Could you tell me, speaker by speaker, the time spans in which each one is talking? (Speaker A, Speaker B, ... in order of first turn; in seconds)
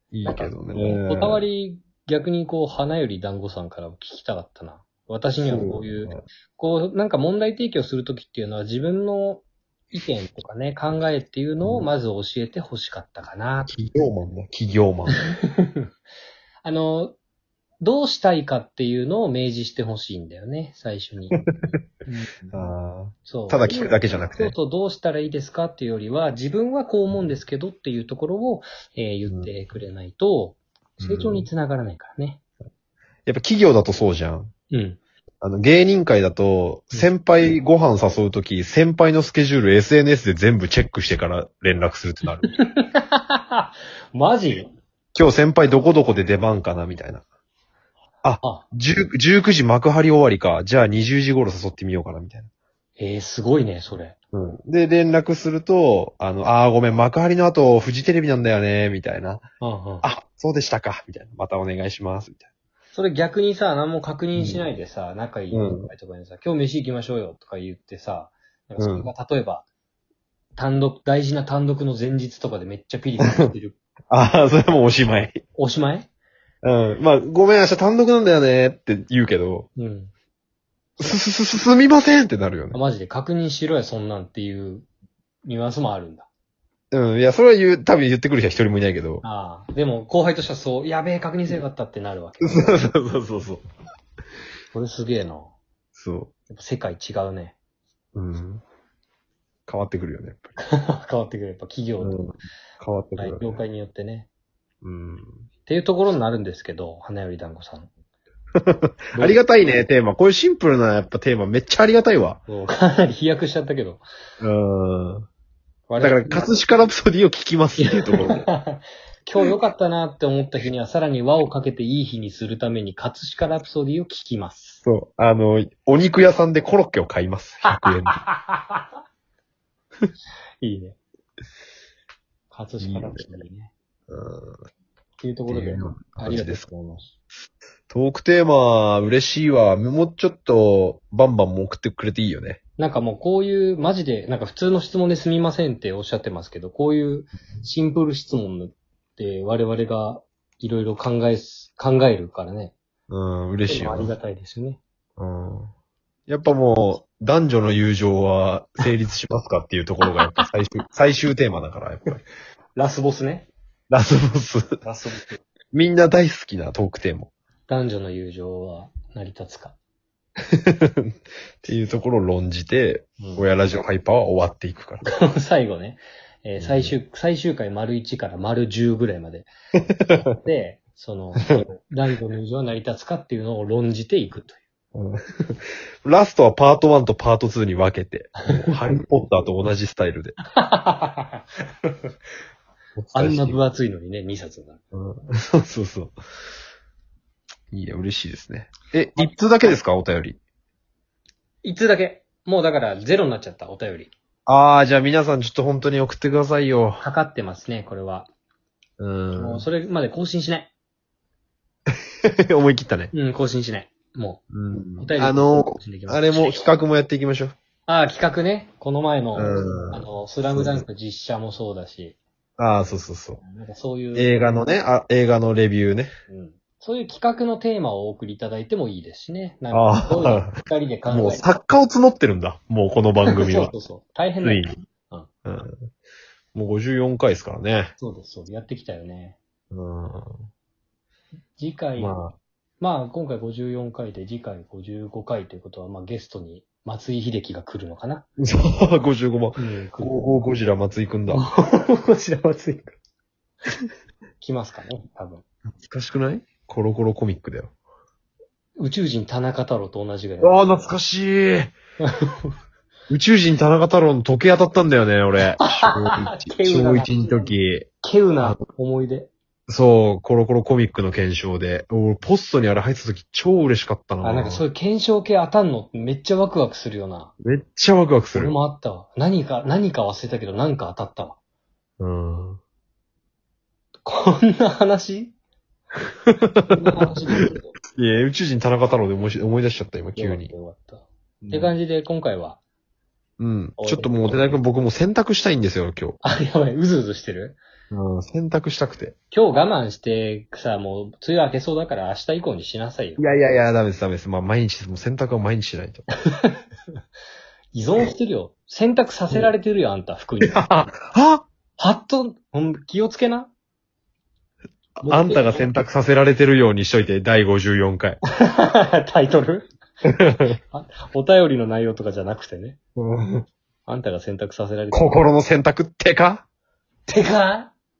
Speaker A: 0.1-1.4, 5.4-6.2, 13.7-15.2, 22.5-24.5, 31.0-31.5, 33.2-34.5, 35.4-42.5, 45.1-47.2, 48.2-52.5, 54.3-59.4, 60.0-62.5, 64.3-64.6, 65.5-65.9, 68.8-69.1, 73.2-73.5, 74.1-75.4, 76.6-79.7, 81.0-82.8, 86.9-89.2, 92.4-93.6, 95.9-96.3, 98.1-98.6, 99.7-100.5, 102.0-103.6, 104.8-105.4, 108.6-112.4, 114.4-115.2, 116.0-118.4, 124.8-128.2, 132.8-133.2, 134.1-134.6, 135.5-136.7, 137.9-142.6, 153.1-154.1, 155.2-155.7, 156.3-162.2, 163.9-164.8, 165.7-167.3, 170.5-175.1, 176.6-176.9, 184.9-190.4, 193.0-193.6, 194.9-196.2, 197.7-200.4, 204.5-207.0, 209.0-209.7, 212.5-213.1, 214.5-217.5, 219.3-220.8, 222.6-223.4, 224.1-226.1, 229.7-230.5, 231.1-233.7, 234.4-234.7, 235.4-235.8, 236.5-237.9, 239.7-240.5, 241.9-242.4, 248.4-251.5, 255.8-257.7, 260.4-261.7, 263.1-267.9, 269.7-274.6, 277.4-278.5, 282.0-282.6, 286.3-287.0, 287.9-290.5, 291.5-291.7, 293.4-296.2, 297.9-299.1, 303.2-306.1, 310.4-311.4, 315.0-318.2, 320.3-320.6, 323.0-323.4, 324.9-326.4
Speaker B: 0.2-13.7, 15.1-15.9, 16.6-17.1, 17.8-22.6, 23.2-32.4, 34.7-35.0, 42.5-44.7, 53.0-54.1, 59.6-60.0, 62.9-69.6, 70.5-73.8, 75.5-76.1, 79.8-80.1, 82.7-84.9, 85.4-86.3, 89.2-92.8, 94.7-95.5, 96.5-97.5, 100.6-102.2, 103.2-104.3, 105.7-107.9, 109.1-109.7, 112.5-114.0, 115.9-116.5, 117.8-124.8, 127.7-128.8, 130.6-131.0, 132.5-133.7, 135.2-137.1, 142.8-152.8, 153.7-154.8, 160.1-160.5, 162.8-163.5, 164.8-165.4, 167.7-169.8, 173.2-173.4, 175.1-179.5, 180.1-184.6, 190.6-191.9, 193.1-194.8, 201.6-204.1, 207.0-208.3, 209.4-210.7, 213.1-214.4, 215.0-216.7, 217.9-222.2, 223.4-224.6, 226.3-231.4, 233.3-235.3, 238.0-239.4, 241.6-242.2, 242.8-248.2, 249.6-250.1, 251.3-253.0, 254.4-255.4, 258.8-260.9, 262.0-262.5, 265.6-269.3, 274.2-277.3, 278.3-281.4, 284.0-285.3, 286.7-287.7, 290.1-292.6, 293.8-294.6, 296.2-297.6, 299.3-303.2, 306.3-306.6, 307.7-310.6, 311.8-313.5, 315.0-315.7, 318.4-319.7, 320.5-322.8, 323.9-325.2, 327.1-327.7